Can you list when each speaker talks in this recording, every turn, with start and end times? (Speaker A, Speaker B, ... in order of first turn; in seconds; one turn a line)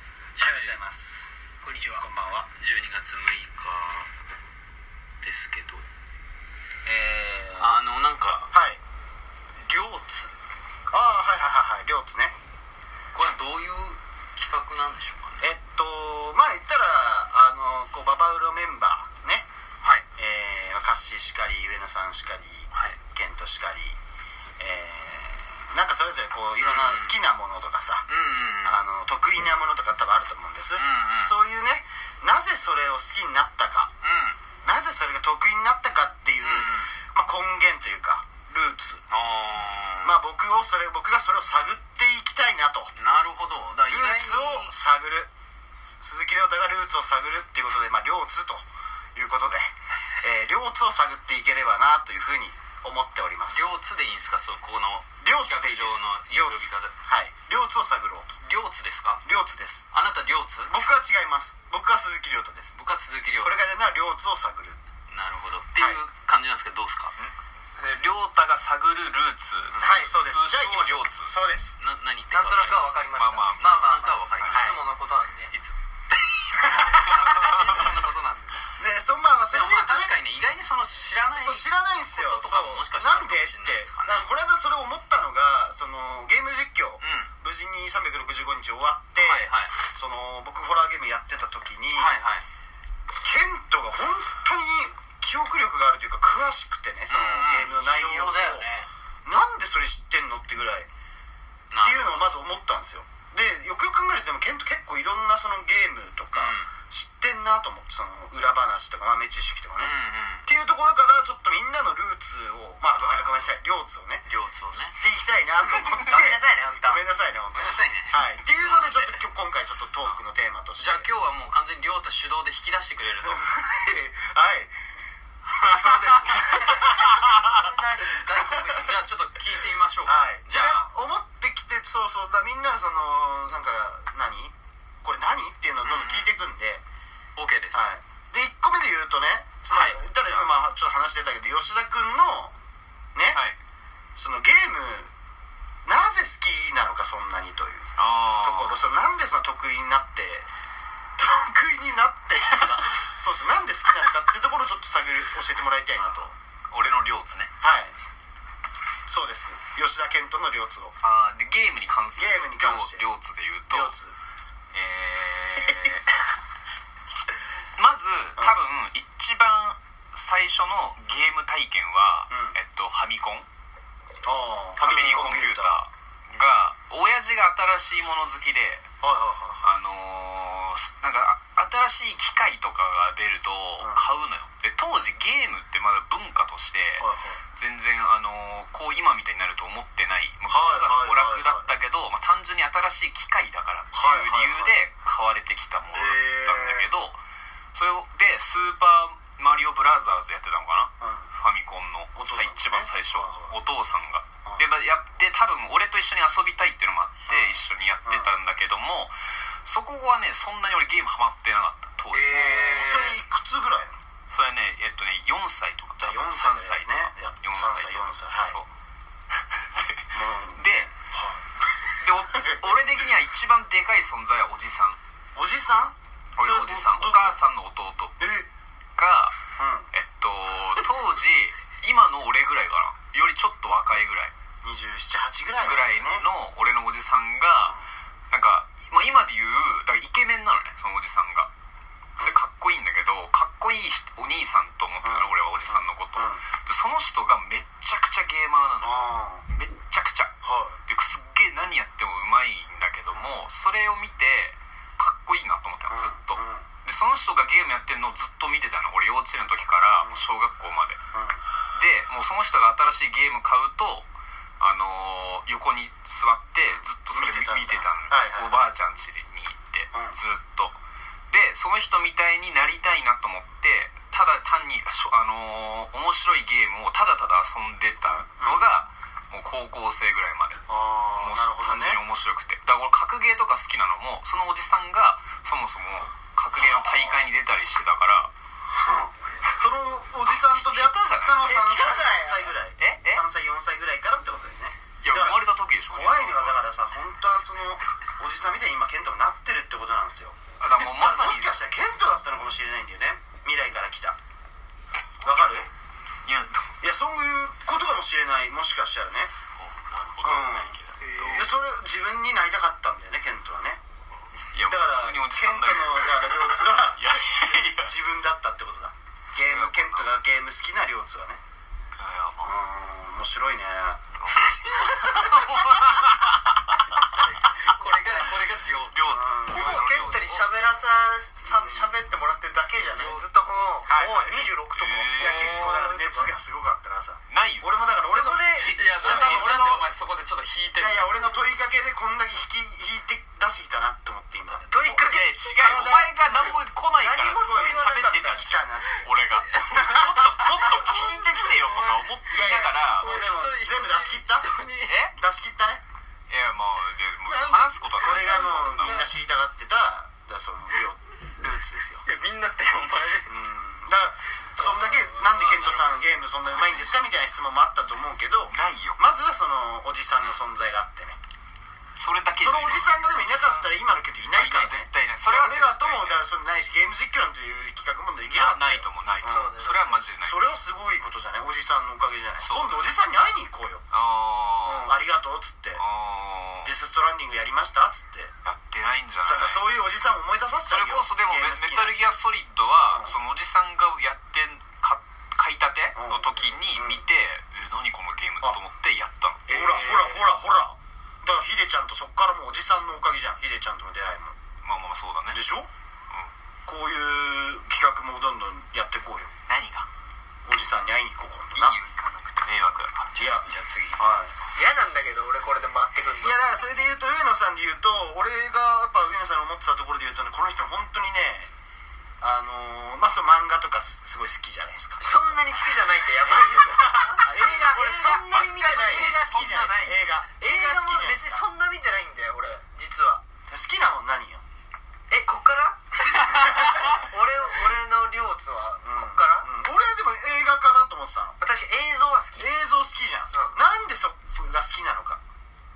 Speaker A: 0.4-1.3
Speaker B: 0.4-1.1
Speaker C: 1.6-2.0
Speaker B: 2.0-2.5
Speaker A: 2.6-4.1
Speaker A: 5.2-5.8
Speaker B: 6.8-7.8
Speaker A: 7.6-8.5
Speaker B: 8.5-8.8
Speaker A: 9.6-10.4
Speaker B: 10.9-12.3
Speaker A: 13.1-15.5
Speaker B: 15.4-19.5
Speaker B: 20.2-24.0
Speaker A: 22.7-23.0
Speaker B: 24.6-28.1
Speaker A: 26.6-27.2
Speaker A: 28.1-28.8
Speaker B: 28.6-33.9
Speaker A: 30.8-31.3
Speaker A: 34.0-34.4
Speaker B: 34.6-39.0
Speaker A: 36.4-36.9
Speaker A: 39.1-40.1
Speaker B: 40.0-42.9
Speaker A: 43.0-44.7
Speaker B: 43.9-45.3
Speaker B: 46.0-48.6
Speaker B: 49.1-53.6
Speaker A: 53.5-56.9
Speaker B: 55.2-58.4
Speaker A: 58.4-59.2
Speaker B: 59.2-59.9
Speaker A: 59.9-60.8
Speaker B: 60.7-62.8
Speaker A: 62.8-63.6
Speaker B: 63.4-64.8
Speaker A: 65.1-67.2
Speaker D: 67.8-71.3
Speaker A: 69.7-70.0
Speaker B: 69.8-71.8
Speaker A: 71.8-74.6
Speaker C: 72.3-75.5
Speaker D: 73.2-74.7
Speaker B: 74.5-74.8
Speaker B: 76.5-77.5
Speaker A: 76.6-78.7
Speaker D: 77.0-78.0
Speaker B: 78.8-80.2
Speaker A: 79.5-84.3
Speaker B: 81.3-92.2
Speaker A: 87.0-87.3
Speaker A: 89.2-89.8
Speaker A: 92.0-92.5
Speaker B: 93.2-98.7
Speaker A: 97.1-97.8
Speaker C: 97.8-98.8
Speaker B: 99.2-100.9
Speaker A: 101.7-102.3
Speaker B: 101.8-109.9
Speaker A: 106.3-106.7
Speaker A: 109.8-110.5
Speaker B: 110.4-114.2
Speaker A: 113.0-113.3
Speaker A: 114.3-115.0
Speaker B: 114.8-121.1
Speaker C: 115.9-117.0
Speaker A: 117.5-119.2
Speaker A: 120.8-123.4
Speaker B: 123.2-124.7
Speaker A: 125.5-126.7
Speaker B: 125.7-127.4
Speaker C: 126.7-129.1
Speaker B: 128.3-128.8
Speaker A: 128.8-130.8
Speaker B: 130.0-136.8
Speaker A: 135.8-136.3
Speaker A: 137.4-137.9
Speaker B: 137.7-142.5
Speaker A: 139.7-140.3
Speaker B: 143.2-143.4
Speaker D: 143.3-143.6
Speaker B: 144.2-145.1
Speaker B: 145.9-147.9
Speaker D: 148.0-148.8
Speaker B: 148.4-150.5
Speaker B: 151.2-156.3
Speaker D: 156.7-157.5
Speaker B: 157.6-157.9
Speaker B: 159.1-160.9
Speaker D: 161.0-163.9
Speaker B: 162.2-163.1
Speaker B: 163.7-164.1
Speaker D: 164.7-166.1
Speaker D: 167.8-173.5
Speaker B: 172.3-172.6
Speaker B: 174.2-175.8
Speaker D: 174.8-178.9
Speaker B: 179.0-179.6
Speaker D: 179.6-197.2
Speaker B: 183.8-184.1
Speaker B: 187.0-187.4
Speaker B: 190.5-191.7
Speaker B: 193.9-194.8
Speaker B: 195.9-196.9
Speaker D: 197.7-209.2
Speaker B: 201.0-201.3
Speaker B: 202.2-203.6
Speaker B: 207.3-208.3
Speaker D: 209.7-213.2
Speaker C: 212.1-213.1
Speaker A: 212.3-213.1
Speaker B: 212.4-213.9
Speaker D: 214.3-218.7
Speaker B: 216.0-218.6
Speaker B: 220.1-221.4
Speaker D: 220.6-220.9
Speaker D: 222.0-225.0
Speaker B: 222.3-222.8
Speaker B: 225.3-227.4
Speaker D: 226.4-228.2
Speaker B: 228.2-228.5
Speaker D: 229.0-229.3
Speaker B: 229.6-229.9
Speaker D: 229.9-234.3
Speaker B: 234.6-236.2
Speaker D: 235.6-237.8
Speaker D: 238.3-241.5
Speaker D: 242.2-250.3
Speaker B: 245.0-246.4
Speaker B: 248.8-249.4
Speaker B: 250.4-250.8
Speaker D: 250.9-261.0
Speaker B: 255.9-256.7
Speaker B: 260.0-260.3
Speaker B: 261.1-261.4
Speaker D: 261.7-264.1
Speaker D: 264.6-270.8
Speaker B: 266.7-268.6
Speaker B: 269.9-270.2
Speaker D: 271.3-280.6
Speaker B: 278.1-278.7
Speaker B: 280.7-282.0
Speaker D: 281.1-288.3
Speaker B: 286.6-287.2
Speaker B: 288.8-304.2
Speaker D: 290.2-292.1
Speaker C: 291.5-292.5
Speaker D: 292.8-293.2
Speaker D: 295.0-296.6
Speaker D: 300.6-301.7
Speaker B: 305.2-305.7
Speaker D: 306.2-306.7
Speaker B: 306.8-309.3
Speaker A: 309.6-311.0
Speaker B: 310.2-313.8
Speaker D: 310.3-311.5
Speaker C: 311.0-311.4
Speaker D: 314.5-317.9
Speaker B: 314.7-321.4
Speaker D: 319.3-320.2
Speaker D: 322.0-322.5
Speaker B: 322.4-324.0
Speaker D: 324.2-327.1
Speaker A: 327.6-329.1
Speaker C: 327.8-328.3
Speaker D: 328.9-330.5
Speaker B: 329.1-329.8
Speaker C: 329.5-336.3
Speaker B: 331.4-332.0
Speaker A: 332.8-334.0
Speaker B: 333.9-334.5
Speaker D: 334.7-335.8
Speaker B: 335.2-339.9
Speaker D: 337.3-337.9
Speaker C: 338.1-339.8
Speaker D: 338.5-339.6
Speaker A: 338.6-341.2
Speaker B: 340.8-346.6
Speaker C: 344.7-345.4
Speaker D: 344.9-353.2
Speaker C: 347.0-348.4
Speaker B: 347.1-351.1
Speaker A: 349.6-352.1
Speaker B: 352.3-354.6
Speaker A: 353.0-355.0
Speaker D: 354.9-355.1
Speaker B: 355.1-355.8
Speaker D: 356.3-359.1
Speaker A: 357.3-359.1
Speaker B: 358.0-362.0
Speaker A: 362.1-363.3
Speaker B: 363.3-371.2
Speaker A: 364.6-365.7
Speaker D: 365.4-367.0
Speaker D: 368.5-369.0
Speaker D: 372.0-373.7
Speaker B: 372.4-379.6
Speaker D: 374.3-376.2
Speaker D: 378.2-380.4
Speaker C: 379.2-380.0
Speaker B: 380.2-383.8
Speaker D: 382.4-382.9
Speaker D: 383.9-384.9
Speaker B: 384.6-385.8
Speaker D: 385.8-386.7
Speaker B: 386.6-388.3
Speaker D: 388.4-389.6
Speaker B: 389.2-392.0
Speaker D: 390.7-399.5
Speaker B: 392.8-393.1
Speaker B: 395.9-397.0
Speaker C: 399.5-400.2
Speaker B: 399.5-404.4
Speaker D: 404.6-405.4
Speaker B: 405.3-405.7
Speaker B: 406.7-409.3
Speaker D: 409.5-409.9
Speaker B: 410.4-411.8
Speaker D: 411.5-413.4
Speaker B: 413.2-414.3
Speaker A: 413.4-414.0
Speaker C: 414.5-416.5
Speaker B: 416.2-421.5
Speaker B: 422.2-425.5
Speaker C: 425.0-433.2
Speaker B: 426.6-431.4
Speaker D: 428.5-429.8
Speaker B: 433.5-434.4
Speaker C: 435.1-439.5
Speaker B: 438.8-441.4
Speaker C: 441.4-442.5
Speaker B: 442.4-445.2
Speaker C: 443.3-443.6